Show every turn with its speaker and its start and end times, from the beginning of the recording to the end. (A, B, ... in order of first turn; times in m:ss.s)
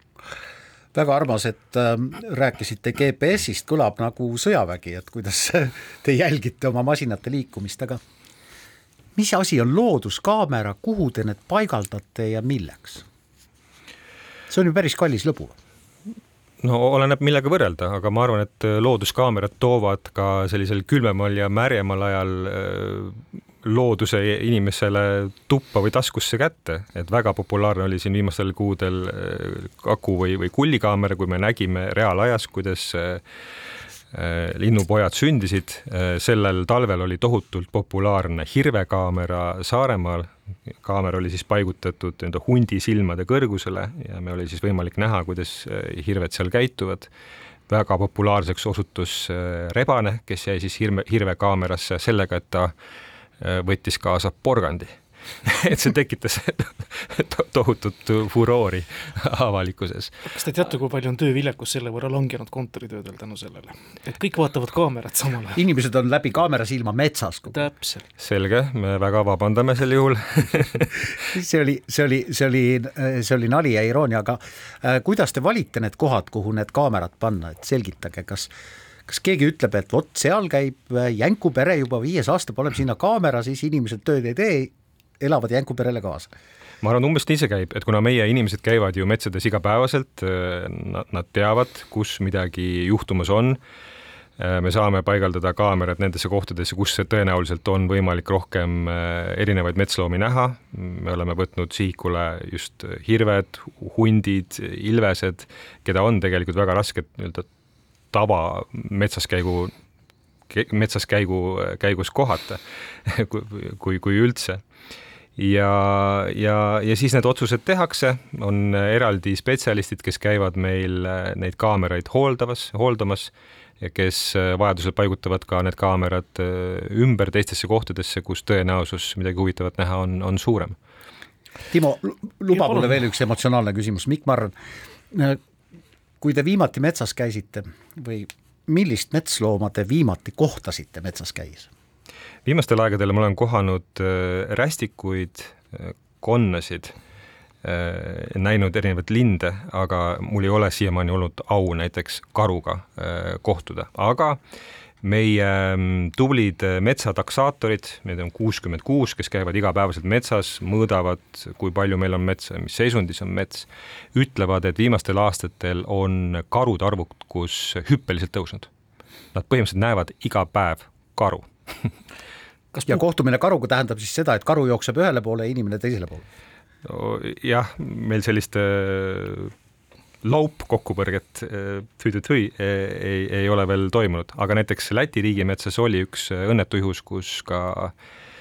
0:00.9-0:08.0 A
0:09.2-0:13.0 A
0:14.5-0:15.5 A
0:16.6-0:33.2 B
0:34.1-0:40.3 B
0:40.8-0:47.1 B
0:47.7-0:52.7 B
0:53.4-1:00.3 B
1:00.3-1:05.6 C
1:05.6-1:07.6 A
1:07.5-1:08.1 C
1:08.2-1:11.0 B
1:11.3-1:18.5 A
1:19.1-1:26.3 A
1:26.8-1:33.6 B
1:34.4-1:47.5 B
1:48.1-1:49.7 B
1:50.5-1:54.6 B
1:55.4-2:10.8 B
2:11.7-2:14.6 A
2:12.6-2:12.9 C
2:15.1-2:15.4 A
2:16.2-2:21.7 A
2:22.5-2:26.9 B
2:27.6-2:34.4 B
2:35.0-2:48.7 B
2:49.3-2:51.9 B
2:52.7-2:53.0 C
2:52.9-2:56.2 A
2:56.8-2:59.5 B
3:00.2-3:07.9 B